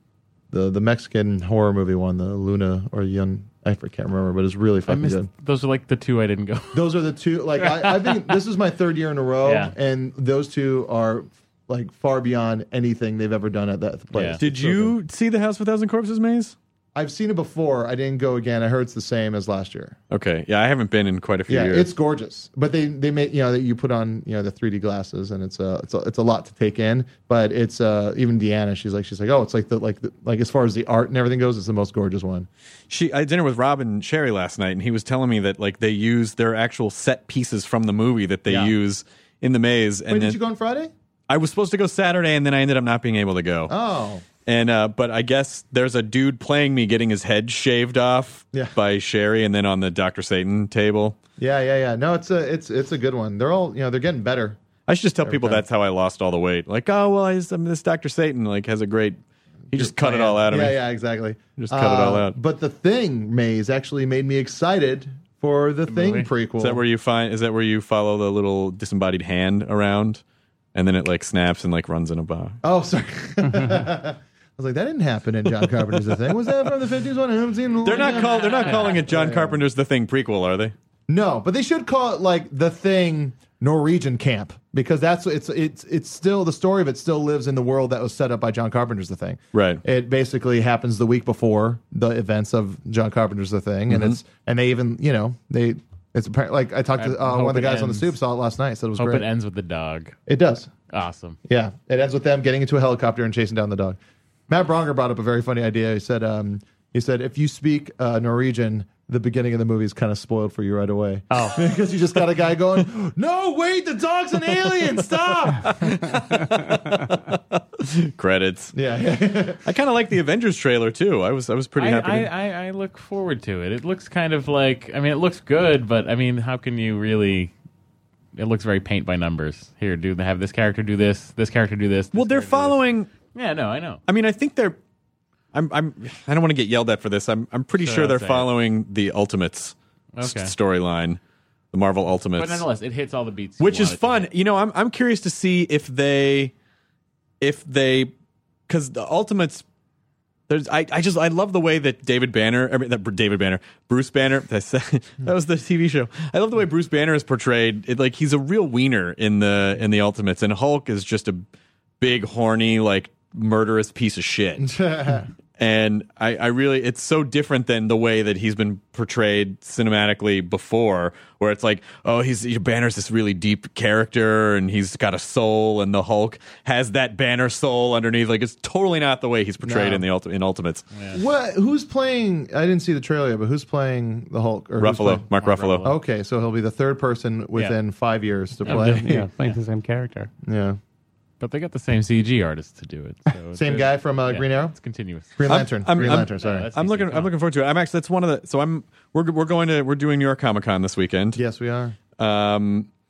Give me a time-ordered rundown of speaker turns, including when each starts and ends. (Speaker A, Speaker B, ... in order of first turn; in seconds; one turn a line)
Speaker A: 0.5-5.3
Speaker B: 4.9-7.0
Speaker A: 6.7-15.0
Speaker B: 7.6-8.4
Speaker B: 9.4-9.7
Speaker B: 14.1-14.4
Speaker C: 14.4-16.6
Speaker A: 16.9-20.0
Speaker C: 20.1-21.9
Speaker A: 21.5-32.5
Speaker C: 32.9-40.4
Speaker A: 38.5-38.8
Speaker A: 40.1-40.9
Speaker C: 41.3-43.7
Speaker A: 43.7-44.3
Speaker C: 44.4-51.2
Speaker A: 48.5-48.8
Speaker A: 51.4-54.6
Speaker C: 54.9-59.2
Speaker A: 55.2-55.6
Speaker A: 59.7-66.8
Speaker C: 59.7-60.8
Speaker C: 61.5-62.4
Speaker B: 65.9-66.3
Speaker C: 66.6-70.2
Speaker C: 70.7-72.6
Speaker A: 72.6-79.6
Speaker C: 77.8-80.7
Speaker B: 77.8-79.2
Speaker A: 81.1-99.3
Speaker C: 89.5-89.8
Speaker C: 93.9-94.2
Speaker B: 97.0-98.2
Speaker B: 99.0-100.2
Speaker A: 100.3-100.7
Speaker B: 100.9-101.4
Speaker A: 101.5-116.0
Speaker D: 111.3-111.6
Speaker C: 115.5-118.7
Speaker A: 118.7-119.6
Speaker C: 119.7-122.3
Speaker B: 121.8-127.5
Speaker B: 128.4-134.0
Speaker C: 132.1-133.1
Speaker C: 134.1-134.8
Speaker C: 135.5-141.2
Speaker B: 137.8-138.5
Speaker B: 140.1-140.5
Speaker C: 141.7-142.6
Speaker B: 142.3-144.3
Speaker C: 143.6-146.5
Speaker C: 147.4-148.1
Speaker C: 148.7-149.7
Speaker C: 150.5-161.4
Speaker C: 162.0-164.7
Speaker A: 164.6-165.3
Speaker C: 165.6-180.9
Speaker A: 179.6-180.1
Speaker B: 180.9-181.2
Speaker A: 181.1-185.3
Speaker C: 184.8-185.9
Speaker B: 185.3-186.0
Speaker A: 185.8-189.3
Speaker B: 188.7-189.1
Speaker D: 188.7-190.3
Speaker A: 190.4-190.8
Speaker B: 191.4-197.3
Speaker A: 193.6-194.8
Speaker A: 195.4-196.7
Speaker C: 195.5-201.4
Speaker A: 201.3-202.0
Speaker C: 202.2-202.9